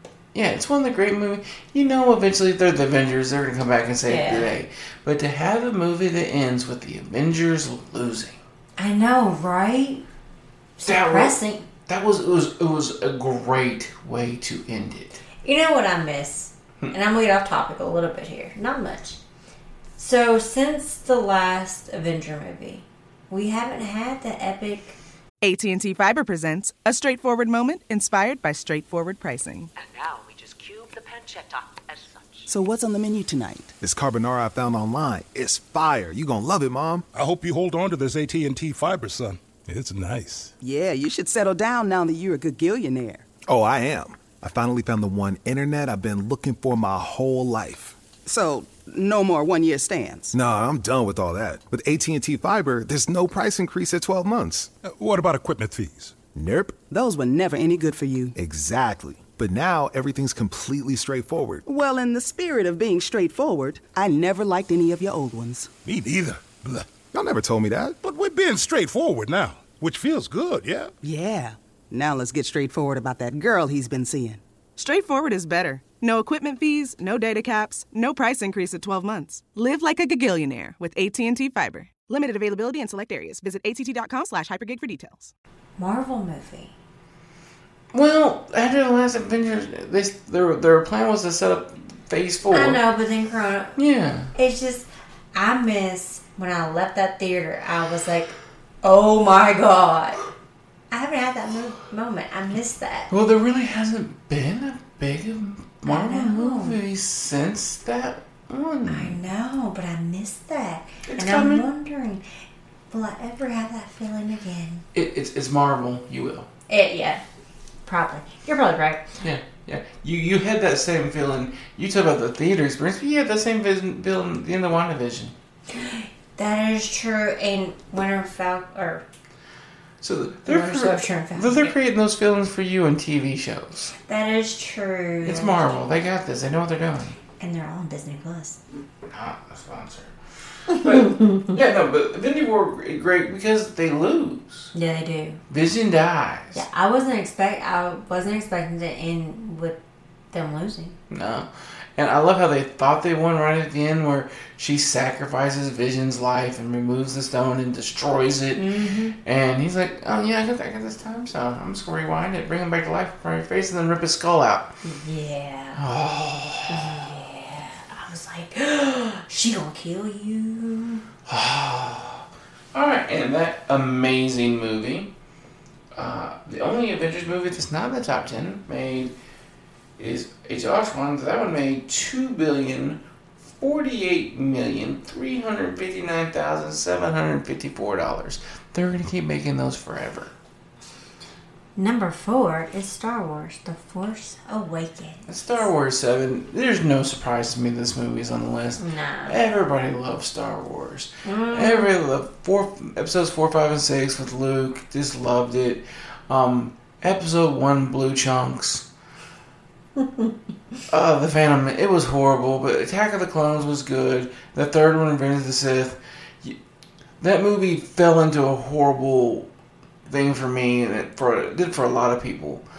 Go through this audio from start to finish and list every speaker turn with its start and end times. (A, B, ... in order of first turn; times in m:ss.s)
0:00.3-0:08.4 A
0:04.1-0:04.5 B
0:08.8-0:10.0 B
0:10.8-0:11.7 B
0:10.8-0:11.4 A
0:11.9-0:15.2 A
0:15.4-0:19.2 B
0:20.0-0:25.0 B
0:25.4-0:29.7 C
0:29.7-0:32.5 D
0:32.5-0:33.7 E
0:33.8-0:37.0 F
0:37.1-0:40.5 G
0:40.6-0:43.2 E
0:43.4-0:48.0 F
0:48.2-0:50.3 E
0:50.3-0:54.7 F
0:54.8-0:56.2 G
0:56.3-0:56.8 F
0:56.9-0:58.3 E
0:58.4-1:01.6 F
1:01.6-1:05.7 E
1:05.8-1:06.9 G
1:07.1-1:08.0 F
1:08.0-1:10.9 G
1:11.0-1:14.4 E
1:14.8-1:25.3 C
1:25.8-1:26.7 B
1:27.9-1:32.8 A
1:32.5-1:33.8 B
1:33.8-1:34.3 A
1:34.3-1:40.2 B
1:40.9-1:43.1 B
1:43.1-1:49.2 A
1:45.8-1:46.8 B
1:48.9-1:52.2 B
1:51.1-1:51.6 A
1:52.9-1:54.8 B
1:54.9-1:56.5 A
1:56.7-1:57.2 B
1:57.8-1:59.1 B
1:59.2-2:05.3 A
2:05.7-2:09.0 B
2:10.0-2:13.9 A
2:10.4-2:11.7 B
2:14.0-2:15.8 B
2:15.2-2:17.2 A
2:17.4-2:18.6 B
2:19.1-2:20.1 A
2:20.7-2:24.7 A
2:20.7-2:21.5 B
2:24.7-2:25.4 B
2:25.5-2:26.6 A
2:26.5-2:29.8 B
2:30.3-2:31.0 B
2:31.1-2:38.7 A
2:38.6-2:39.1 B
2:39.2-2:44.7 A
2:44.8-2:45.8 B
2:45.8-2:47.0 A
2:46.7-2:51.0 B
2:51.3-2:55.1 A
2:55.9-2:59.1 A
3:00.0-3:03.0 A
3:03.6-3:10.3 A
3:11.8-3:15.4 B
3:15.3-3:28.8 A
3:18.8-3:19.4 B
3:21.2-3:21.9 B
3:30.9-3:36.6 A
3:37.2-3:39.5 A
3:40.0-3:42.6 A